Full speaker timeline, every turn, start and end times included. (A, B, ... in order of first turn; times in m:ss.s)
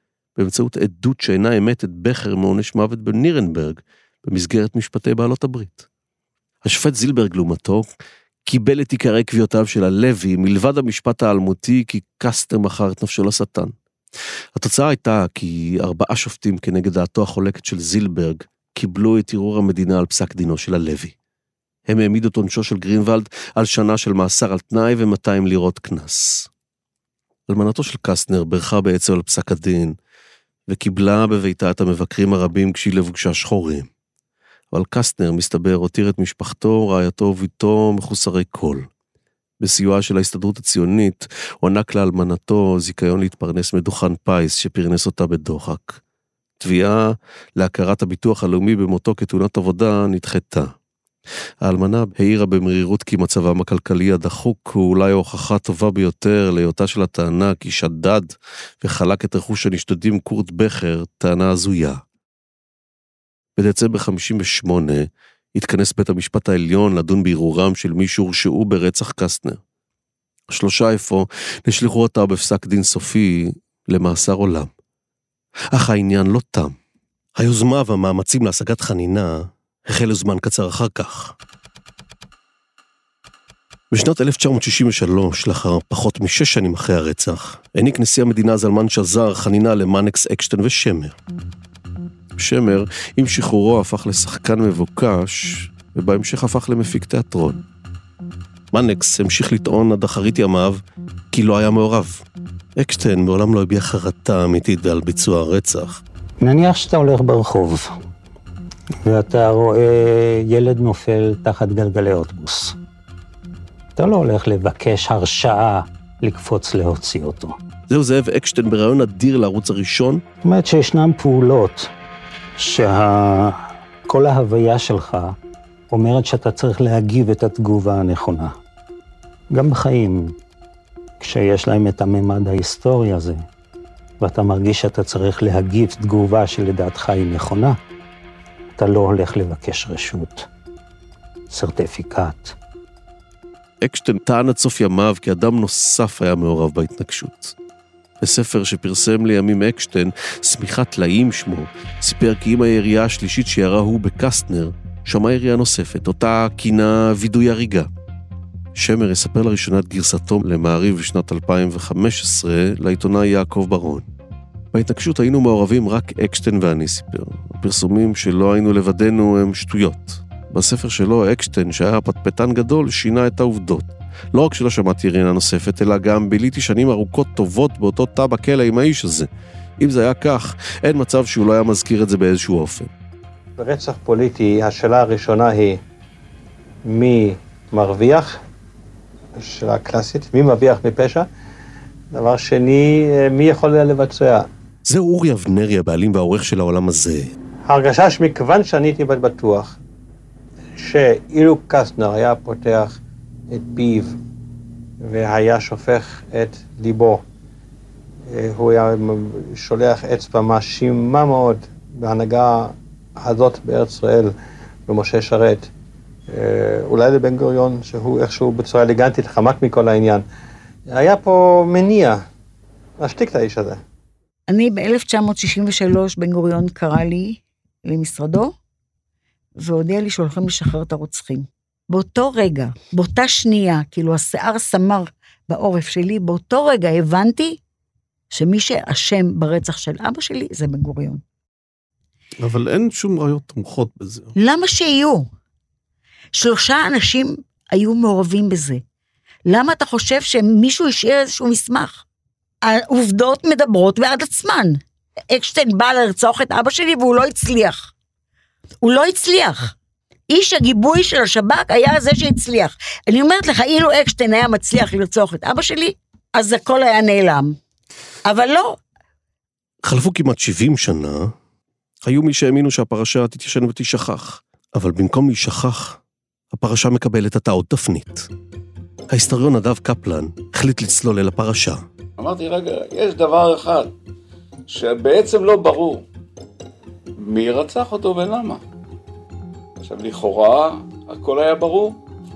0:00.4-0:05.9 A
0:06.6-0:07.9 A
0:08.5-0:13.7 A
0:14.6-0:21.2 A
0:21.9-0:26.5 A
0:27.5-0:30.0 A
0:30.7-0:33.9 A
0:34.7-0:38.9 A
0:39.6-0:46.0 A
0:46.6-0:50.7 A
0:51.6-1:02.0 A
1:03.6-1:09.6 A
1:10.5-1:14.7 A
1:15.7-1:16.8 A
1:17.4-1:21.4 A
1:23.9-1:31.2 A
1:32.4-1:37.6 A
1:38.7-1:42.2 A
1:42.8-1:46.0 A
1:46.4-1:47.9 B
1:49.0-1:52.8 B
1:54.0-1:57.6 B
1:57.9-2:00.2 A
2:00.4-2:01.9 B
2:02.6-2:03.6 B
2:04.1-2:05.4 B
2:05.9-2:08.5 B
2:09.5-2:10.3 B
2:11.2-2:13.4 B
2:14.2-2:17.8 B
2:18.8-2:20.5 B
2:21.5-2:22.6 B
2:23.8-2:27.6 A
2:28.2-2:37.9 A
2:38.8-2:44.1 A
2:44.7-2:59.3 A
2:59.8-3:02.9 A
3:03.6-3:05.8 C
3:06.8-3:08.4 C
3:09.4-3:11.3 C
3:12.1-3:14.5 C
3:14.9-3:17.3 A
3:17.7-3:19.8 C
3:20.8-3:23.0 C
3:23.5-3:24.2 C
3:25.0-3:27.2 C
3:28.3-3:34.4 C
3:34.9-3:35.7 C
3:36.3-3:40.2 C
3:40.9-3:42.2 C
3:43.0-3:43.8 C
3:44.5-3:48.5 D
3:49.6-3:57.6 D
3:58.3-4:01.2 D
4:02.4-4:04.3 A
4:04.4-4:05.3 D
4:06.4-4:08.8 D
4:09.5-4:12.0 D
4:12.6-4:17.9 D
4:18.8-4:19.7 D
4:20.3-4:27.6 D
4:28.2-4:28.8 D
4:29.8-4:31.3 A
4:32.0-4:36.0 A
4:36.5-4:38.3 A
4:39.1-4:41.8 A
4:42.2-4:43.9 E
4:44.7-4:46.0 E
4:47.2-4:48.6 E
4:49.8-4:52.0 E